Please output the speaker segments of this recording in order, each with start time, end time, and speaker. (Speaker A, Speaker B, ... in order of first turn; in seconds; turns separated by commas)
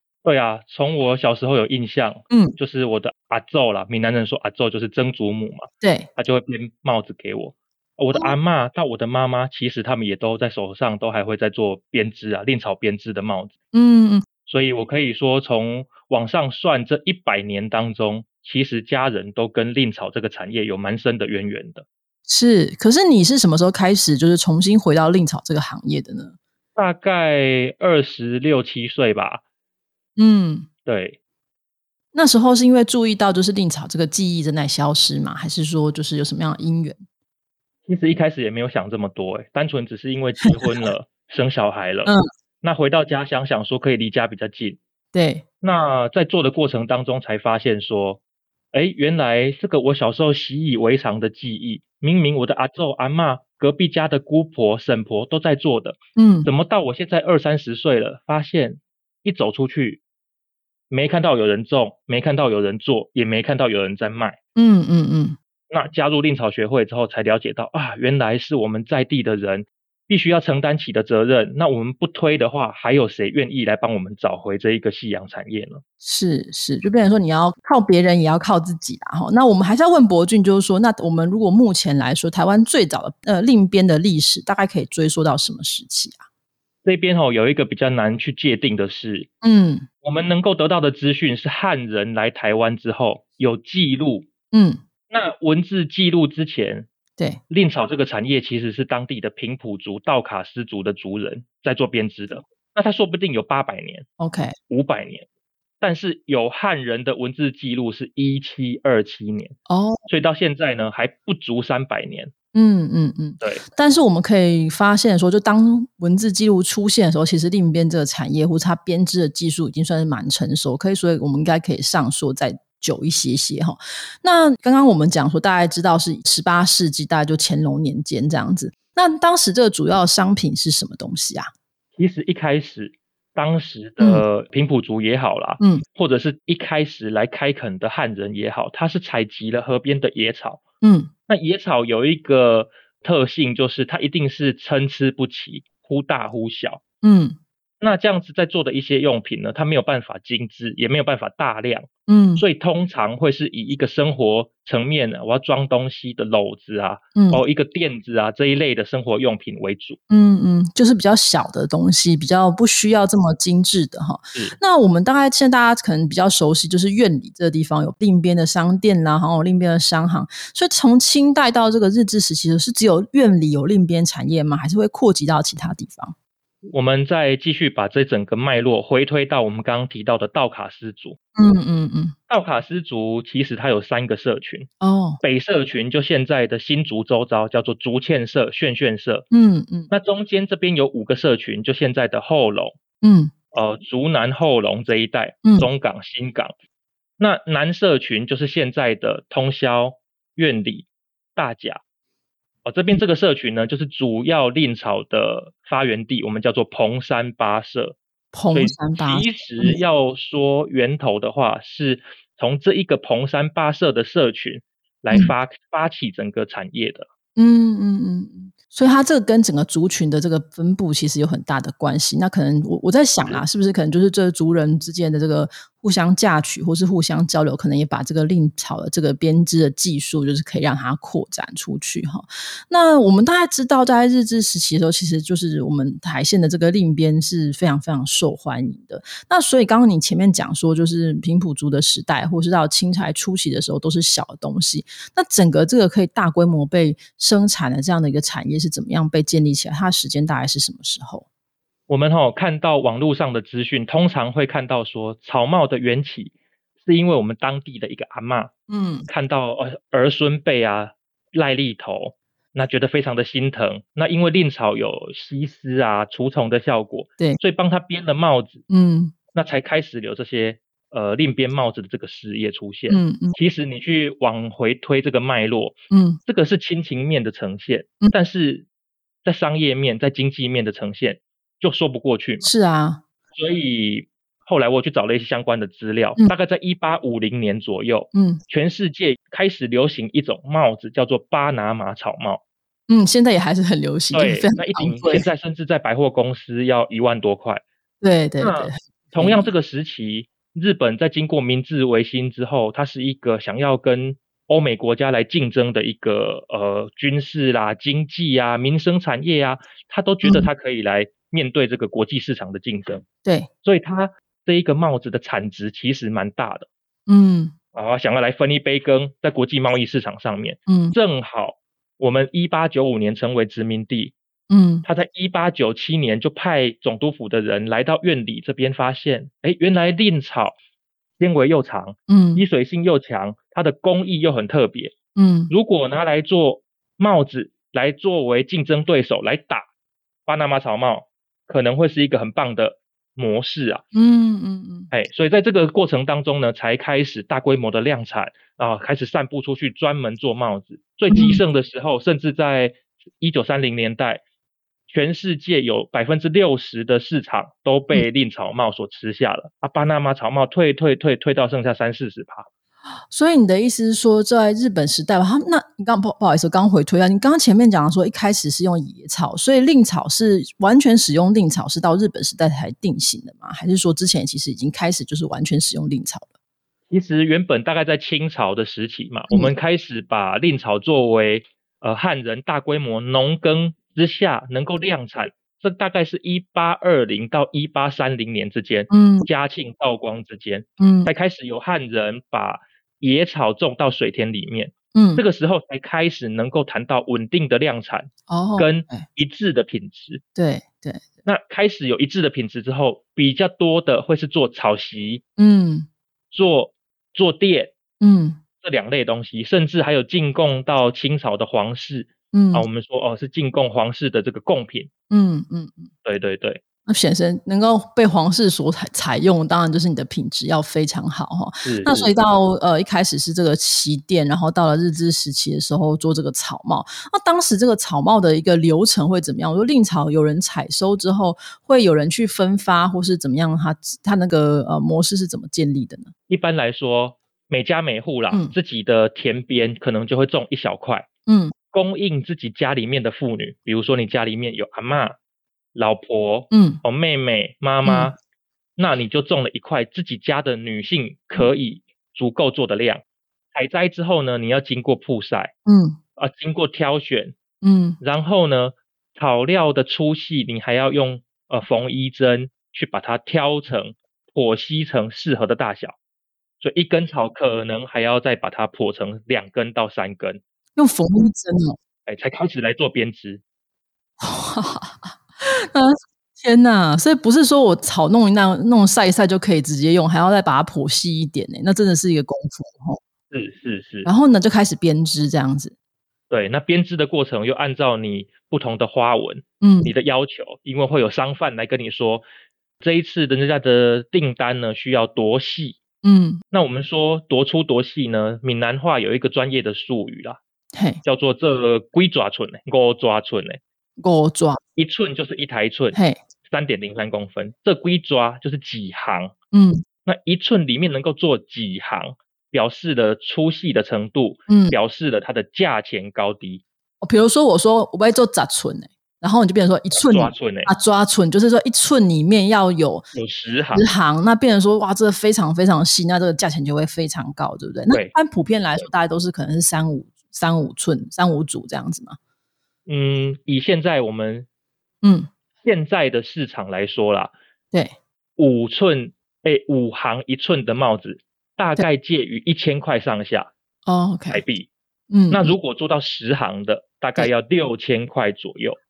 Speaker A: 0.2-13.5, Speaker B: 2.3-2.6, Speaker B: 5.8-6.1, Speaker B: 13.7-14.2, Speaker A: 14.5-21.8, Speaker B: 22.3-26.4, Speaker A: 26.8-29.4, Speaker B: 30.2-30.7, Speaker A: 30.9-31.2, Speaker B: 32.1-37.0, Speaker A: 37.9-44.8, Speaker B: 45.1-45.4, Speaker A: 45.6-48.2, Speaker A: 48.7-60.0, Speaker B: 56.2-56.5, Speaker A: 60.9-64.4, Speaker B: 64.5-65.4, Speaker A: 65.7-75.8, Speaker B: 76.0-86.2, Speaker A: 86.8-89.3, Speaker B: 89.4-89.9, Speaker A: 90.0-94.3, Speaker B: 94.5-94.8, Speaker A: 95.1-96.9, Speaker A: 97.5-104.1, Speaker B: 104.2-104.5, Speaker A: 104.7-105.2, Speaker A: 105.8-109.5, Speaker B: 109.7-110.0, Speaker A: 110.1-112.3, Speaker B: 112.5-131.5, Speaker A: 132.0-140.6, Speaker B: 134.0-134.2, Speaker B: 140.8-141.1, Speaker A: 141.3-146.8, Speaker B: 147.0-147.4, Speaker A: 147.8-160.0, Speaker B: 152.1-152.4, Speaker B: 157.2-157.4, Speaker B: 160.1-176.1, Speaker A: 176.7-181.2, Speaker B: 181.3-182.1, Speaker A: 182.3-184.7, Speaker B: 184.8-185.2, Speaker A: 185.2-189.2, Speaker B: 189.3-189.9, Speaker A: 189.9-192.8, Speaker B: 193.0-193.3, Speaker A: 193.5-196.5, Speaker B: 195.4-195.7, Speaker A: 197.2-201.8, Speaker A: 202.6-208.0, Speaker B: 208.3-209.8, Speaker A: 208.5-217.1, Speaker B: 217.3-251.2, Speaker A: 251.9-258.5, Speaker B: 258.7-259.1, Speaker A: 259.1-268.6, Speaker B: 268.7-269.1, Speaker A: 269.3-278.6, Speaker B: 272.9-273.4, Speaker B: 275.9-276.2, Speaker A: 279.2-282.5, Speaker B: 282.4-283.0, Speaker A: 283.3-292.4, Speaker B: 288.1-288.4, Speaker B: 292.9-295.3, Speaker A: 294.1-297.6, Speaker B: 298.0-299.5, Speaker A: 298.4-313.0, Speaker B: 313.2-313.5, Speaker A: 313.6-316.7, Speaker B: 317.1-317.5, Speaker A: 317.7-324.1, Speaker B: 320.7-320.9, Speaker B: 324.5-324.8, Speaker A: 324.8-330.5, Speaker A: 331.2-334.9, Speaker B: 332.1-332.4, Speaker B: 335.1-335.5, Speaker A: 335.5-339.6, Speaker A: 340.3-343.8, Speaker B: 343.9-344.9, Speaker A: 344.9-354.2, Speaker B: 351.1-351.4, Speaker A: 354.9-362.4, Speaker B: 363.1-376.3, Speaker A: 376.9-400.2, Speaker B: 388.9-389.3, Speaker B: 390.8-391.1, Speaker B: 394.9-395.2, Speaker B: 398.3-399.1, Speaker B: 400.4-401.1, Speaker A: 401.2-405.2, Speaker B: 405.4-405.9, Speaker A: 406.3-407.7, Speaker B: 408.0-408.4, Speaker A: 408.6-414.9, Speaker B: 412.3-412.6, Speaker B: 415.1-415.9, Speaker A: 416.0-416.6, Speaker B: 416.9-436.1, Speaker A: 421.6-422.1, Speaker A: 436.3-441.1, Speaker B: 441.3-441.5, Speaker A: 441.7-445.1, Speaker A: 445.7-448.1, Speaker B: 446.5-446.8, Speaker B: 447.8-448.1, Speaker A: 448.8-453.0, Speaker A: 453.5-455.5, Speaker B: 455.6-456.0, Speaker A: 456.2-457.4, Speaker B: 457.6-458.0, Speaker A: 458.0-465.9, Speaker A: 466.6-470.4, Speaker B: 470.8-471.8, Speaker A: 472.1-473.4, Speaker B: 474.2-483.0, Speaker A: 483.3-484.1, Speaker B: 484.0-485.7, Speaker A: 486.3-492.2, Speaker B: 489.6-489.9, Speaker A: 492.8-495.8, Speaker B: 496.0-496.4, Speaker A: 496.5-500.4, Speaker B: 500.8-501.0, Speaker A: 501.0-503.6, Speaker B: 504.0-504.6, Speaker A: 504.8-509.3, Speaker B: 505.9-506.2, Speaker B: 509.5-509.8, Speaker A: 510.1-516.6, Speaker B: 514.5-514.8, Speaker B: 517.0-523.0, Speaker A: 519.9-520.7, Speaker A: 523.1-523.9, Speaker B: 523.7-532.2, Speaker A: 532.9-534.5, Speaker B: 535.0-535.3, Speaker A: 535.6-537.3, Speaker A: 538.4-543.5, Speaker B: 543.9-544.4, Speaker A: 544.3-544.7, Speaker B: 545.1-545.5, Speaker A: 545.3-548.8